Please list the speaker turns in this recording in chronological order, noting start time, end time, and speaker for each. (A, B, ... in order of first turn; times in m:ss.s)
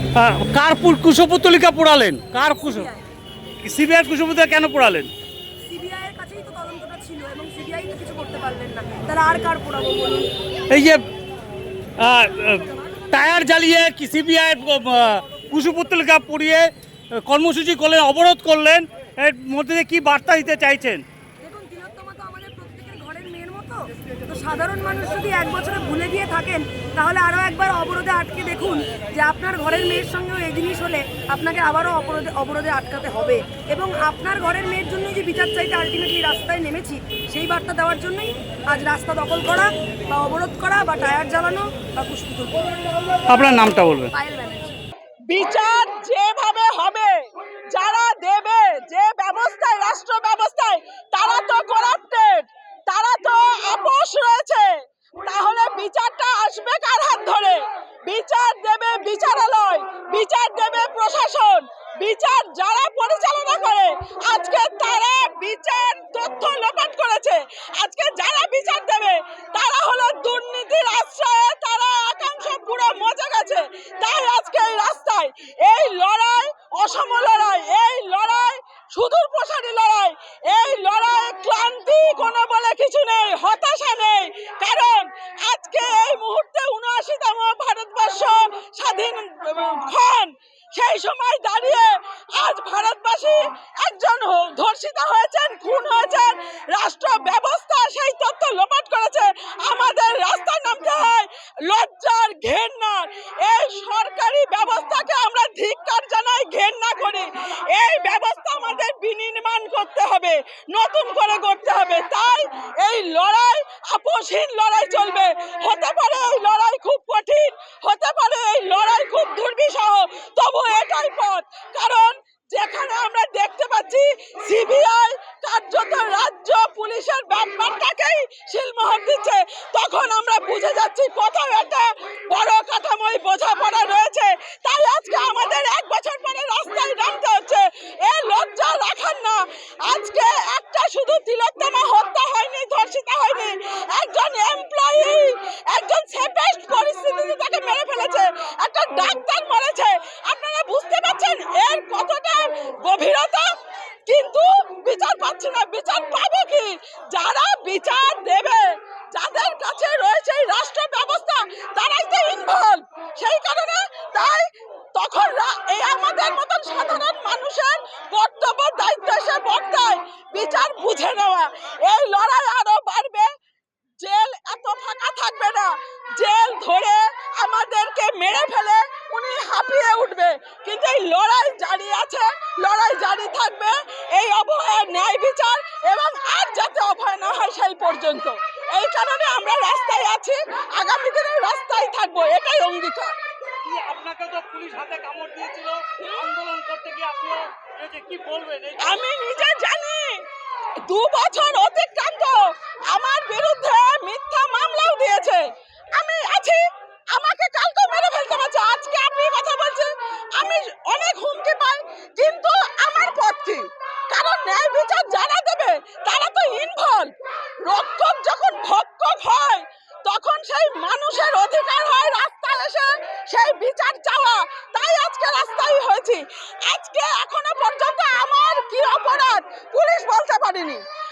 0:00.1-0:03.0 A
0:03.6-0:05.1 A
0:05.6-0:10.3 B
0:10.7-0:11.0 A
0:12.0-0:21.0 A
0:21.4-0:42.8 B
0:43.3-0:44.1 A
0:44.1-0:44.8 B
0:45.3-2:53.3 C
2:54.0-3:13.2 C
3:13.6-3:19.0 A
3:16.0-3:16.3 C
3:18.8-3:20.3 C
3:20.8-3:50.8 C